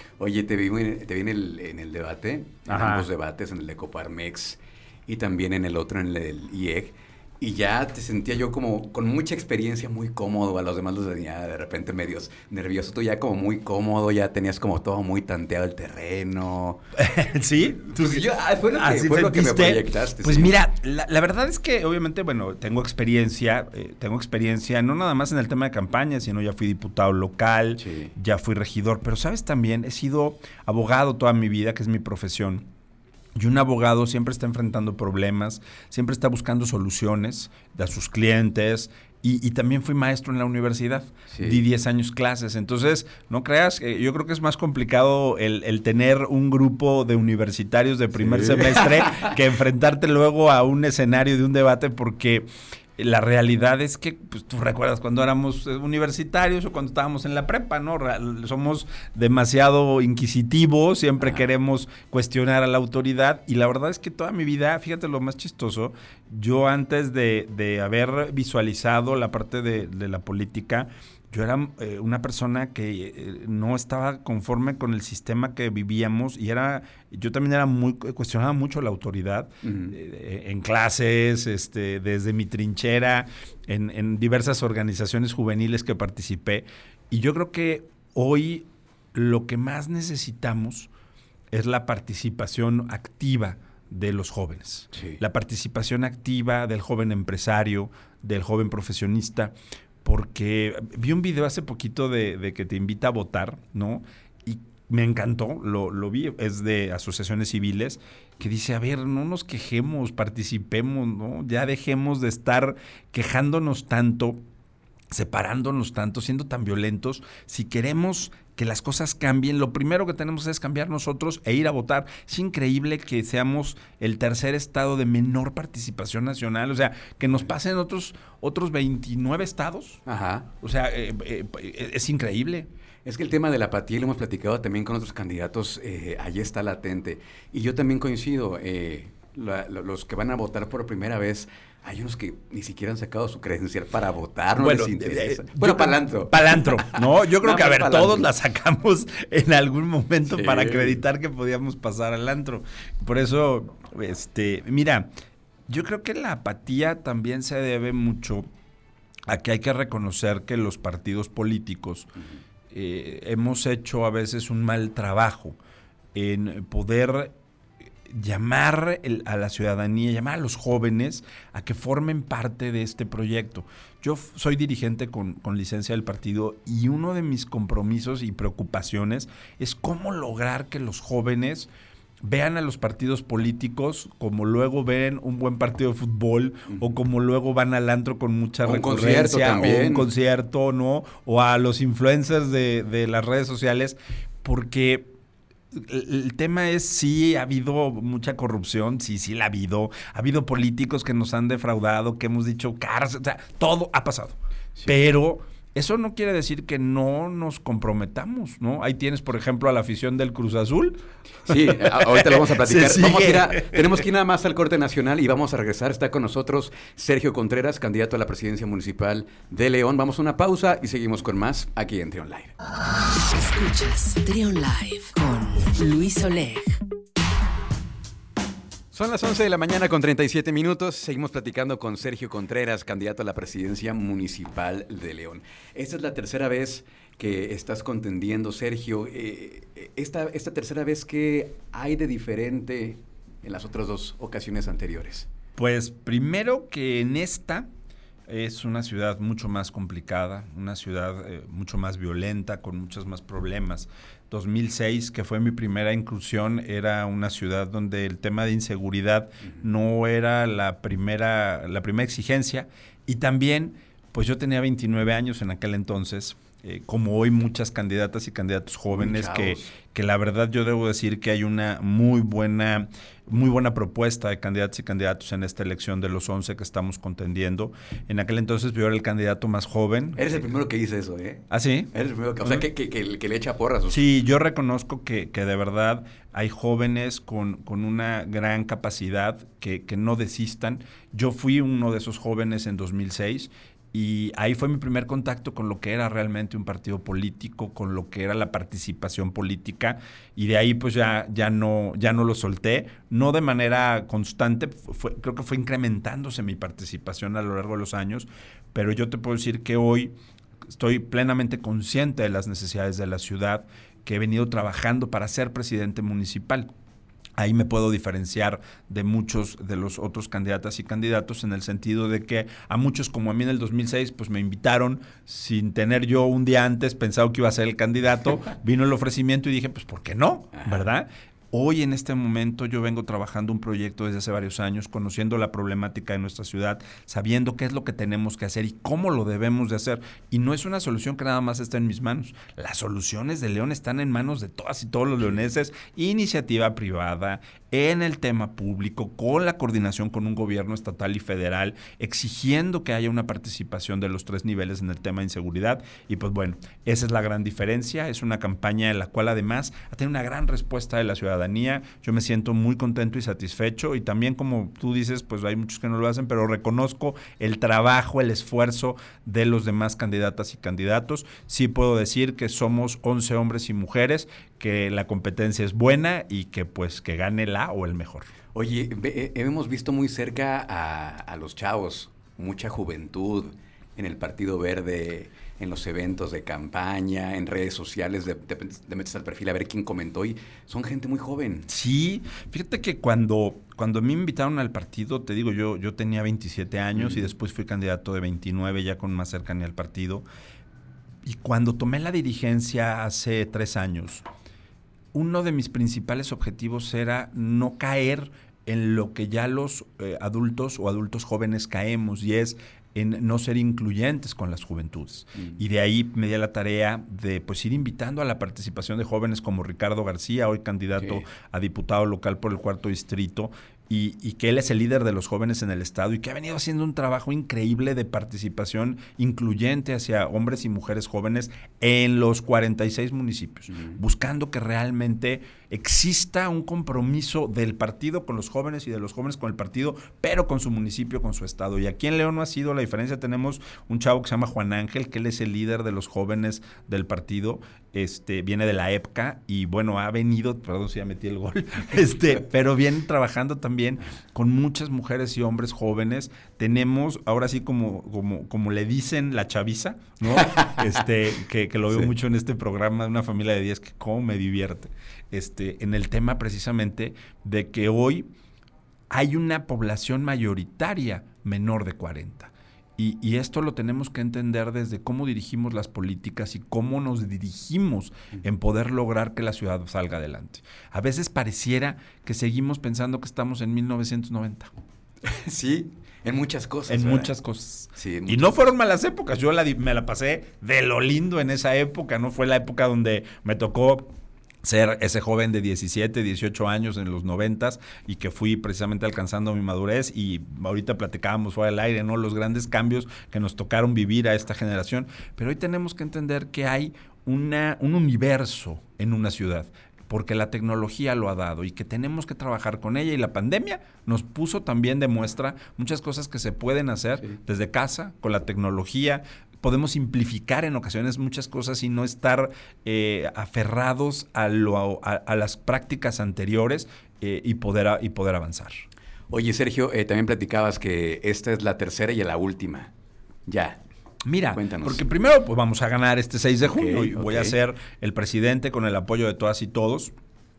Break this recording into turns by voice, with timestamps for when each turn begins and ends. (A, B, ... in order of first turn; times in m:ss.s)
0:00.2-0:16.8 A
0:02.7-0:03.1 B
0:17.0-0:32.7 B
0:17.8-0:20.6 A
0:27.8-0:28.1 A
0:33.3-0:52.4 B
0:41.3-0:41.6 A
0:48.2-0:49.3 A
0:53.0-1:30.9 B
1:19.6-1:20.0 A
1:31.5-1:54.4 B
1:34.9-1:35.2 A
1:55.1-2:10.0 B
2:10.1-2:10.5 A
2:10.6-2:12.7 B
2:13.0-2:28.3 A
2:24.6-2:35.1 B
2:30.3-2:31.0 A
2:35.7-2:38.4 B
2:39.3-2:42.1 B
2:42.7-2:45.6 B
2:46.1-2:47.3 B
2:48.1-3:01.7 B
3:02.2-3:15.1 B
3:06.7-3:07.0 A
3:08.6-3:10.1 A
3:15.7-3:34.0 B
3:31.4-3:42.5 A
3:43.2-3:46.8 C
3:48.9-4:05.3 A
4:05.6-4:07.7 B
4:08.3-4:40.4 B
4:28.9-4:29.7 A
4:40.2-4:44.0 A
4:41.5-4:41.9 B
4:43.9-5:10.1 B
5:10.7-5:16.7 B
5:17.4-6:18.3 B
5:30.6-5:30.9 A
6:18.5-6:31.7 A
6:31.7-6:40.3 B
6:36.9-6:37.3 A
6:41.2-6:44.2 B
6:45.1-7:48.3 B
7:01.0-7:01.3 A
7:13.7-7:14.0 A
7:49.1-8:04.7 B
8:05.2-8:07.3 A
8:06.9-8:14.1 B
8:08.0-8:08.6 A
8:14.6-8:48.8 B
8:49.3-8:52.9 A
8:53.4-8:53.8 A
8:54.2-9:00.1 B
8:54.5-8:55.0 A
8:56.6-8:57.6 A